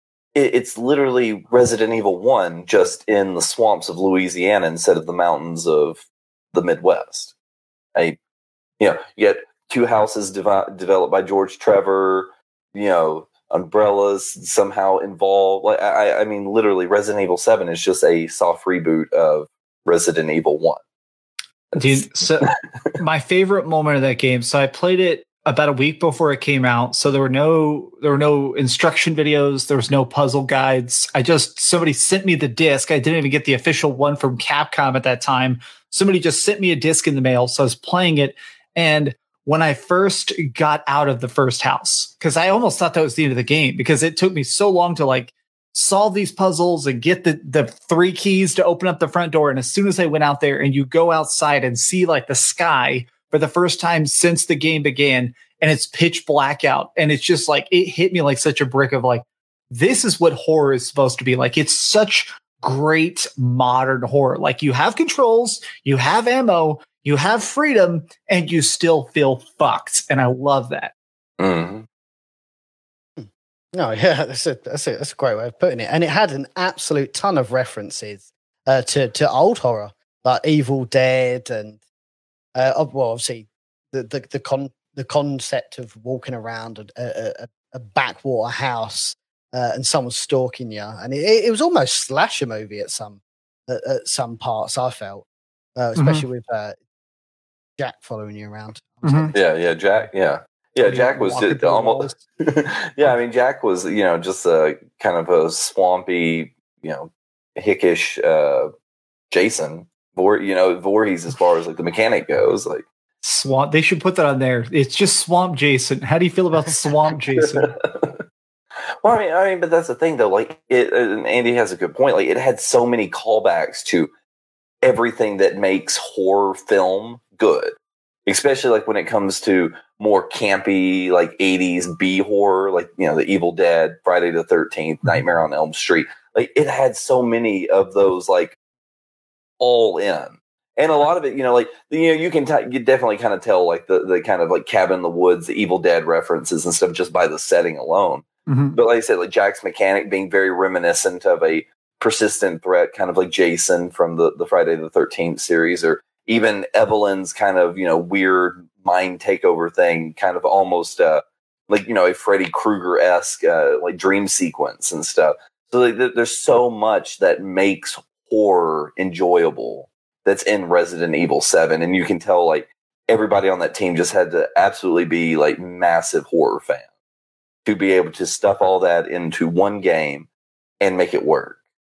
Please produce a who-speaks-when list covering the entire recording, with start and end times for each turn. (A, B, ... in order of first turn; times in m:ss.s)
0:00.4-0:07.3 A
0:08.8-0:20.8 A
0:21.7-0:22.9 A
0:21.8-1:10.9 B
1:11.4-1:11.9 A
1:13.2-1:21.8 C
1:22.6-1:36.8 C
1:36.0-1:36.2 B
1:37.8-1:39.4 C
1:39.0-1:39.3 B
1:39.3-1:48.7 A
1:40.9-1:42.2 C
1:49.3-1:52.8 A
1:53.2-1:57.7 B
1:57.3-1:58.2 A
1:59.0-2:04.1 A
2:04.8-2:07.8 A
2:08.3-2:18.6 A
2:19.6-2:56.9 A
2:28.5-2:28.8 B
2:57.6-3:00.3 A
3:00.8-3:01.6 A